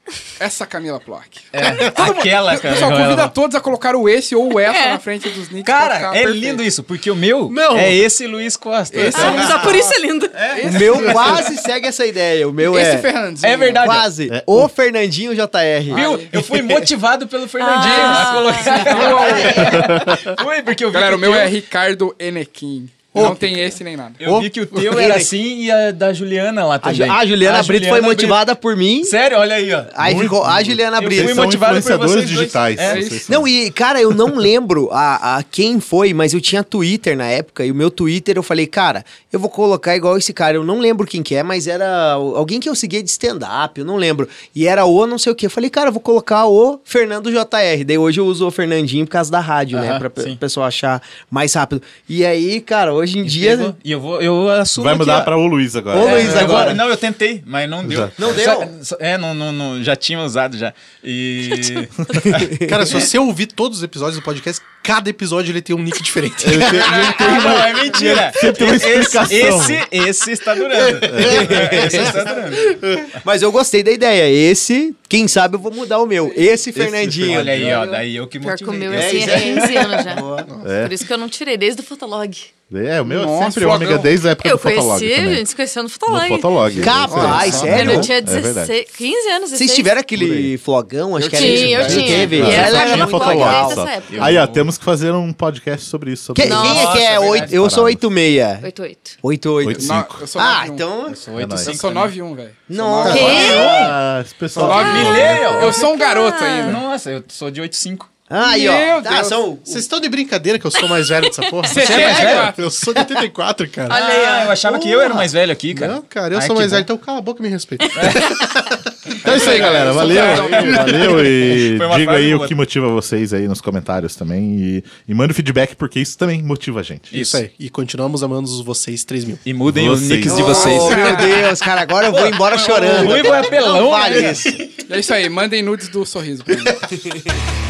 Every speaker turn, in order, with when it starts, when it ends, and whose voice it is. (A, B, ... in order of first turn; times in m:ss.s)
0:00.4-0:06.6 A
0:01.5-0:03.3 B
0:01.7-0:01.9 C
0:04.7-0:05.0 D
0:05.6-0:09.8 B
0:07.5-0:08.0 C
0:08.9-0:10.0 A
0:09.1-0:10.6 D
0:09.2-0:09.7 C
0:10.3-0:11.2 B
0:10.5-0:11.5 A
0:10.7-0:13.1 E
0:12.6-0:13.8 A
0:13.4-0:14.1 B
0:13.8-0:16.9 E
0:14.3-0:14.7 F
0:15.9-0:16.3 A
0:15.9-0:21.5 B
0:17.6-0:19.0 D
0:17.9-0:19.8 A
0:18.9-0:19.8 E
0:19.6-0:20.2 F
0:20.9-0:24.2 A
0:23.1-0:25.2 C
0:24.2-0:28.5 B
0:24.9-0:25.3 E
0:26.8-0:29.2 E
0:29.0-0:29.9 B
0:29.9-0:31.6 E
0:30.0-0:33.5 F
0:31.0-0:33.1 B
0:32.8-0:33.2 A
0:33.3-0:53.7 E
0:49.7-0:50.4 B
0:53.2-0:55.3 B
0:54.8-0:56.8 F
0:55.9-0:56.8 E
0:56.0-1:02.5 B
0:57.8-0:58.4 F
0:58.2-0:58.7 E
1:02.3-1:02.7 E
1:02.6-1:07.6 C
1:06.4-1:09.8 F
1:06.6-1:12.8 B
1:10.8-1:11.1 C
1:11.1-1:12.1 F
1:11.3-1:12.1 E
1:12.7-1:18.0 E
1:16.8-1:17.8 F
1:16.8-1:19.7 B
1:18.4-1:22.5 D
1:18.9-1:20.0 F
1:19.0-1:20.5 E
1:20.5-1:20.8 C
1:20.6-1:21.0 F
1:22.7-1:25.4 F
1:23.1-1:24.1 A
1:24.3-1:26.8 D
1:26.1-1:28.8 F
1:26.7-1:27.7 B
1:26.8-1:28.2 E
1:27.1-1:27.8 C
1:27.4-1:30.0 D
1:29.5-1:33.8 E
1:30.1-1:30.5 F
1:31.2-1:32.5 A
1:31.3-1:34.4 D
1:31.5-1:38.0 F
1:31.8-1:32.7 B
1:34.0-1:34.7 B
1:36.4-1:38.7 E
1:36.4-1:36.9 D
1:36.5-1:37.6 B
1:38.6-1:39.2 D
1:39.2-1:41.2 E
1:39.6-1:40.2 F
1:39.8-1:40.8 A
1:41.2-1:42.1 B
1:41.3-1:41.8 F
1:41.6-1:43.5 A
1:42.7-1:43.8 E
1:43.1-1:43.7 D
1:43.1-1:45.8 F
1:43.2-1:43.9 B
1:44.6-1:46.8 A
1:44.6-1:45.8 B
1:44.8-1:45.1 D
1:45.7-1:46.8 D
1:46.6-1:48.1 B
1:48.3-1:49.8 E
1:48.4-1:49.4 A
1:49.7-1:54.0 C
1:50.8-1:52.0 D
1:51.7-1:52.6 A
1:51.8-1:52.5 B
1:53.9-1:55.0 D
1:53.9-1:56.9 B
1:55.0-1:59.8 C
1:57.8-1:58.2 D
1:57.9-1:58.3 B
1:59.2-2:07.1 F
1:59.3-2:01.0 A
1:59.3-2:02.6 B
2:00.4-2:01.0 C
2:07.1-2:09.4 C
2:07.1-2:07.4 B
2:09.4-2:11.5 B
2:09.7-2:11.1 F
2:10.3-2:14.6 E
2:10.4-2:11.4 A
2:12.1-2:14.5 B
2:14.9-2:16.8 A